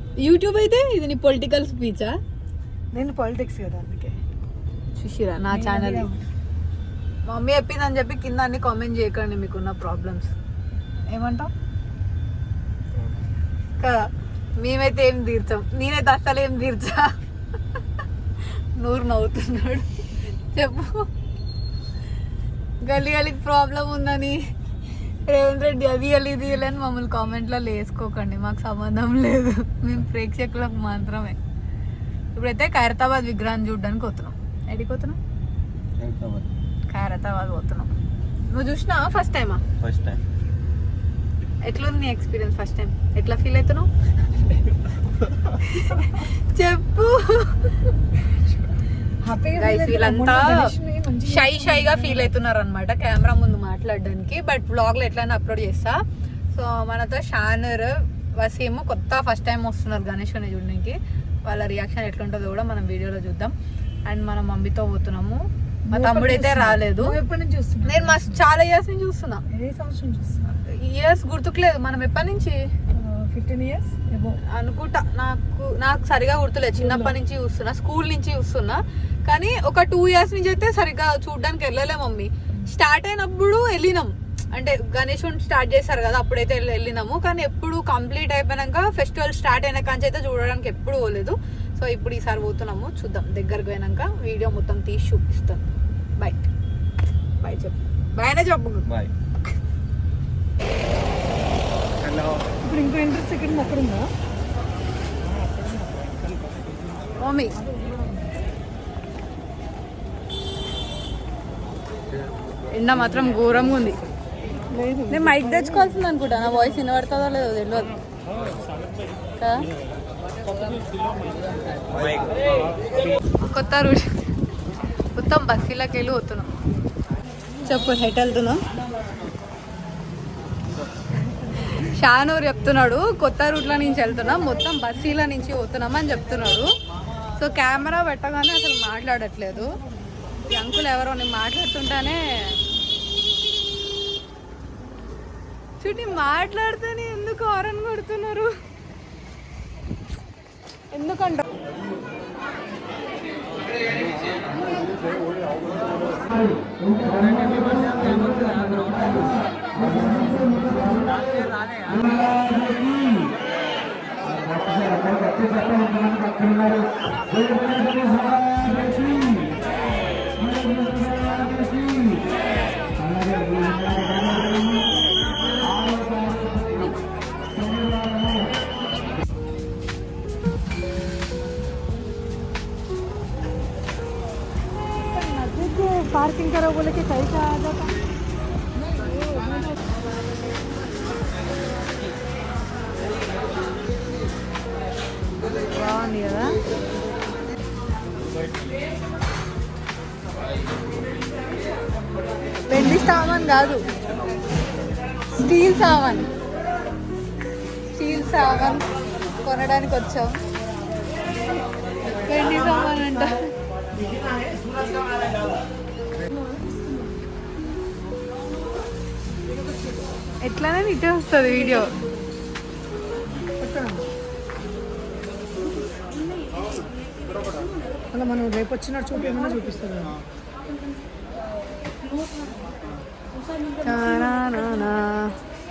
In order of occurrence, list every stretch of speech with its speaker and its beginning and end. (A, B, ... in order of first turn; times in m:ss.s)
0:00.2-0:02.2 A
0:02.9-0:04.2 B
0:05.0-0:06.1 A
0:05.5-0:06.2 B
0:07.3-0:10.3 A
0:11.1-0:11.5 A
0:13.8-0:17.1 A
0:18.8-0:21.1 A
0:22.8-0:24.4 A
0:25.2-0:31.4 A
0:32.4-0:35.2 A
0:36.0-0:36.5 C
0:36.9-0:37.9 A
0:38.5-0:39.6 A
0:39.8-0:40.2 C
0:41.6-0:43.9 A
0:45.6-0:47.8 A
0:48.3-0:48.5 B
0:49.2-0:52.3 B
0:49.5-0:56.0 A
0:56.5-1:03.5 A
1:04.1-1:07.2 A
1:05.9-1:08.4 B
1:07.8-1:09.4 A
1:09.5-1:10.5 B
1:10.5-1:12.6 A
1:12.9-1:14.4 B
1:14.5-1:35.7 A
1:16.8-1:17.2 B
1:36.2-1:36.5 A
1:37.4-1:38.9 A
1:38.9-1:39.1 C
1:42.1-1:42.4 C
1:42.6-1:44.1 B
1:47.2-1:47.6 A
1:47.6-1:48.4 B
1:52.7-1:54.0 A
1:54.7-1:56.0 B
1:55.1-1:57.9 A
1:59.4-1:59.7 A
2:01.9-2:02.4 C
2:03.4-2:04.2 A
2:05.1-2:06.6 A
2:07.6-2:08.6 A
2:11.4-2:16.7 A
2:17.4-2:19.7 A
2:20.4-2:22.6 A
2:25.8-2:28.5 A
2:30.9-2:31.4 A
2:37.5-2:38.6 B
2:39.9-2:40.9 B
3:05.0-3:08.0 A
3:15.7-3:16.6 A
3:22.7-3:23.9 A
3:25.4-3:26.3 A
3:27.9-3:28.9 A
3:29.4-3:30.4 A
3:32.2-3:33.5 A
3:40.4-3:41.9 A
3:43.6-3:44.1 B
3:48.1-3:50.2 B
3:53.8-3:55.4 A